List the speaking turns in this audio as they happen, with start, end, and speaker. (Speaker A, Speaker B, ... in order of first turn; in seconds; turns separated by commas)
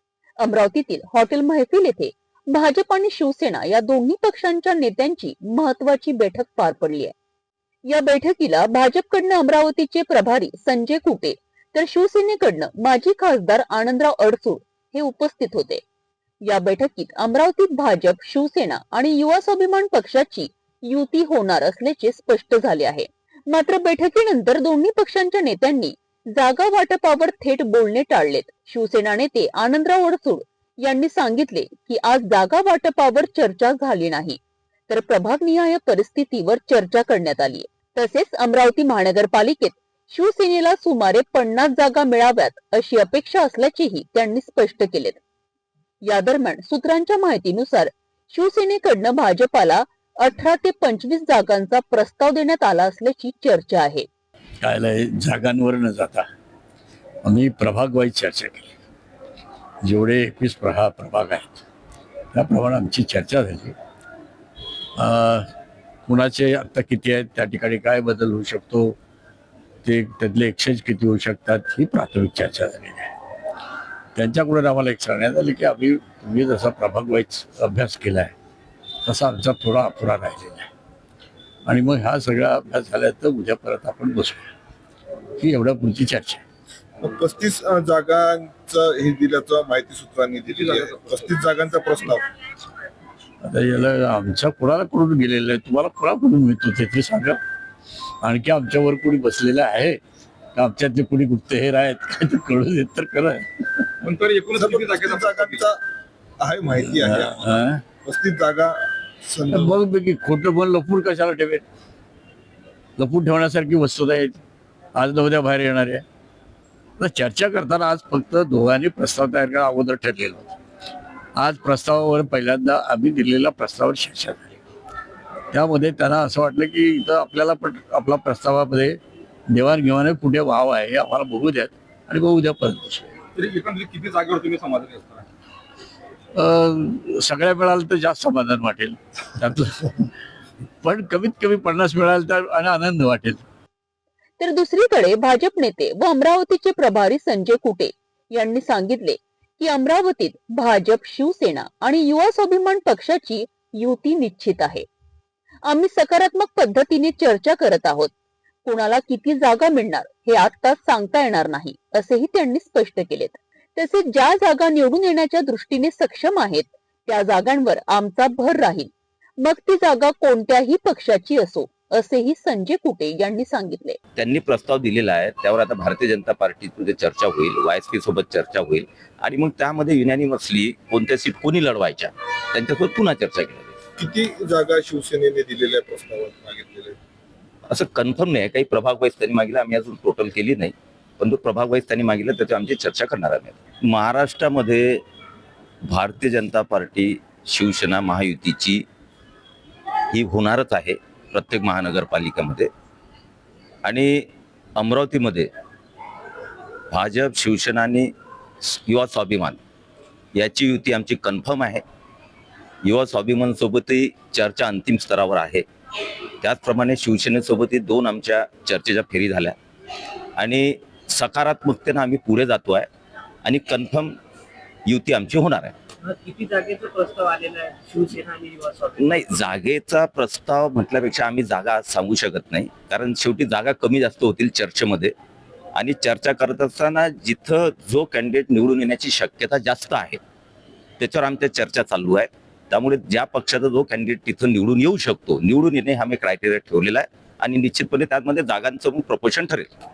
Speaker A: 0.4-7.1, Speaker A: 7.9-15.8, Speaker A: 16.4-45.2, Speaker A: 46.0-54.1, Speaker B: 54.6-56.2, Speaker B: 57.2-58.7, Speaker B: 59.8-61.6, Speaker B: 62.3-63.7, Speaker B: 65.0-65.5, Speaker B: 66.1-69.0, Speaker B: 69.8-73.1, Speaker B: 74.1-78.3, Speaker B: 79.0-80.7, Speaker B: 81.7-84.5, Speaker B: 85.4-86.4, Speaker C: 87.0-92.2, Speaker D: 90.5-91.3, Speaker B: 93.4-97.4, Speaker B: 98.2-100.0, Speaker B: 100.5-103.9, Speaker D: 104.0-105.7, Speaker C: 104.5-105.8, Speaker C: 106.4-107.5, Speaker B: 106.8-107.8, Speaker C: 108.0-109.8, Speaker B: 109.5-111.6, Speaker B: 113.0-114.4, Speaker B: 115.0-116.0, Speaker B: 117.0-120.6, Speaker B: 121.3-124.6, Speaker B: 125.5-133.1, Speaker D: 133.3-135.2, Speaker B: 136.3-140.1, Speaker B: 140.8-143.4, Speaker A: 144.4-154.9, Speaker A: 155.6-158.1, Speaker A: 158.6-174.0, Speaker E: 174.2-183.7, Speaker C: 184.0-187.0, Speaker E: 187.7-195.0, Speaker E: 195.8-198.8, Speaker E: 200.1-202.7, Speaker E: 203.8-205.5, Speaker E: 206.9-208.1, Speaker E: 208.6-209.6, Speaker E: 210.3-211.8, Speaker E: 212.8-215.7, Speaker E: 216.4-219.6, Speaker E: 220.4-222.9, Speaker E: 223.4-224.1, Speaker E: 224.8-225.7, Speaker F: 226.0-229.3, Speaker E: 229.0-235.1, Speaker E: 235.7-240.2, Speaker E: 241.0-249.7